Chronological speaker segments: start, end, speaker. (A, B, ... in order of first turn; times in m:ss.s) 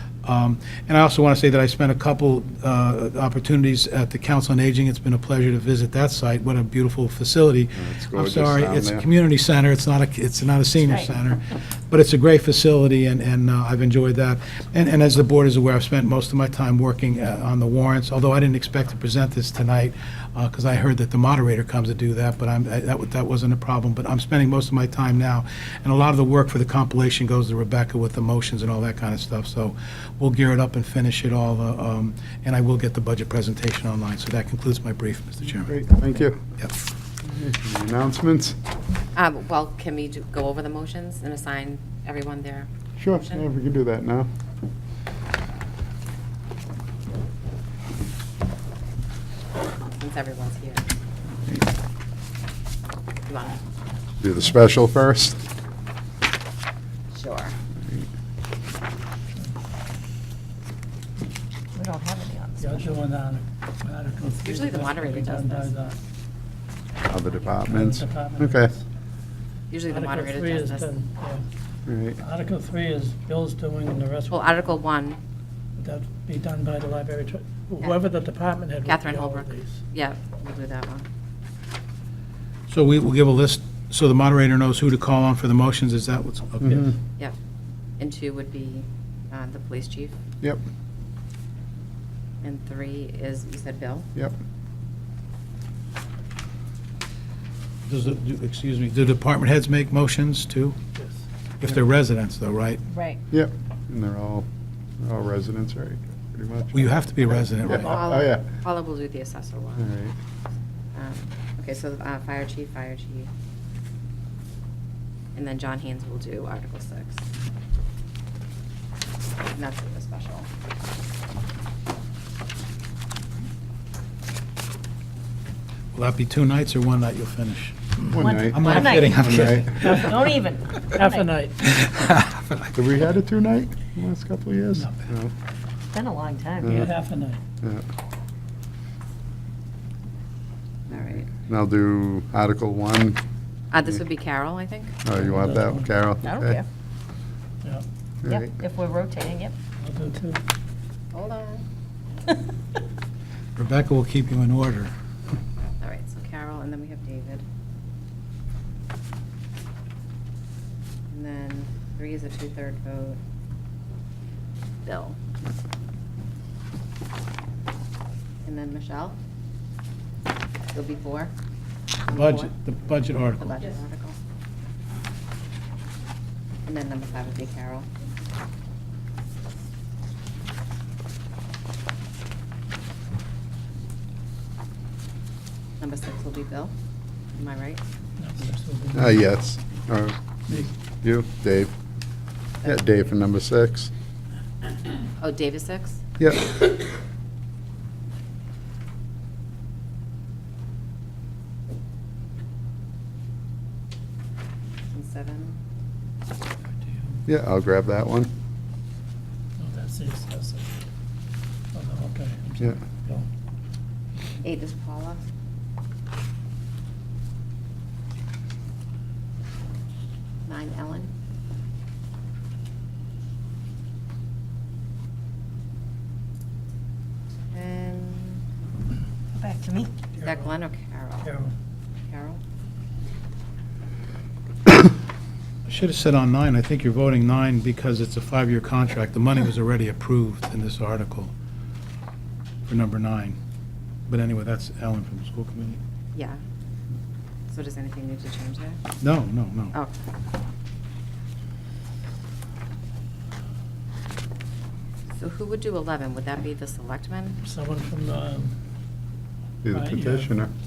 0:00.2-0:35.8 A
0:07.8-0:09.1 B
0:35.7-0:36.4 B
0:37.2-0:38.6 B
0:39.2-0:43.5 C
0:43.0-0:44.3 B
0:50.0-0:50.8 C
0:53.3-0:53.6 C
0:54.2-0:55.4 B
0:57.1-0:57.6 C
1:01.8-1:03.0 D
1:02.6-1:06.0 E
1:04.4-1:05.9 C
1:07.0-1:08.7 B
1:07.7-1:08.7 E
1:09.7-1:10.9 C
1:09.9-1:11.4 E
1:11.9-1:12.2 B
1:12.2-1:14.4 E
1:14.3-1:15.2 C
1:15.8-1:19.7 E
1:18.9-1:21.0 C
1:22.7-1:26.9 A
1:26.7-1:26.9 B
1:28.0-1:30.2 C
1:32.4-1:34.1 C
1:37.9-1:40.8 A
1:41.6-1:42.8 A
1:42.9-1:43.2 D
1:43.3-1:44.5 B
1:45.0-1:48.5 B
1:46.7-1:48.0 A
1:47.8-1:49.9 C
1:49.8-1:50.1 B
1:51.0-1:53.3 C
1:55.4-1:57.2 C
1:59.5-2:00.5 C
2:05.9-2:10.1 A
2:08.1-2:10.0 B
2:08.2-2:11.4 D
2:10.9-2:11.6 E
2:11.8-2:12.6 A
2:12.7-2:15.3 B
2:15.9-2:16.8 D
2:16.6-2:16.9 B
2:16.7-2:17.4 E
2:20.9-2:21.3 C
2:21.2-2:23.2 B
2:23.7-2:25.0 C
2:25.0-2:26.6 B
2:25.2-2:26.0 E
2:26.2-2:26.6 D
2:28.2-2:28.5 B
2:28.2-2:29.6 D
2:29.8-2:30.4 E
2:31.1-2:31.6 C
2:33.6-2:34.9 A
2:35.8-2:37.4 C
2:41.1-2:43.2 C
2:44.8-2:45.2 C
2:48.4-2:49.2 C
2:50.7-2:51.3 C
2:52.0-2:54.2 C
2:52.1-2:53.6 A
2:56.7-2:57.9 C
3:05.8-3:06.7 C
3:07.4-3:07.8 C
3:08.2-3:09.2 E
3:09.0-3:11.7 B
3:12.6-3:12.9 C
3:12.6-3:13.9 B
3:15.2-3:16.0 C
3:16.2-3:16.6 B
3:24.9-3:25.6 C
3:27.3-3:28.3 B
3:29.6-3:30.7 E
3:31.7-3:33.3 E
3:34.4-3:35.2 C
3:40.5-3:41.1 C
3:47.5-3:48.4 C
3:49.4-3:50.1 D
3:50.2-3:51.3 C
3:51.2-3:51.5 E
3:52.1-3:52.4 C
3:55.7-4:01.3 A
4:02.7-4:03.4 A
4:04.1-4:05.8 A
4:07.5-4:08.8 C
4:09.0-4:09.8 A
4:15.2-4:17.4 C
4:17.4-4:18.6 E
4:19.6-4:20.5 B
4:19.7-4:20.3 E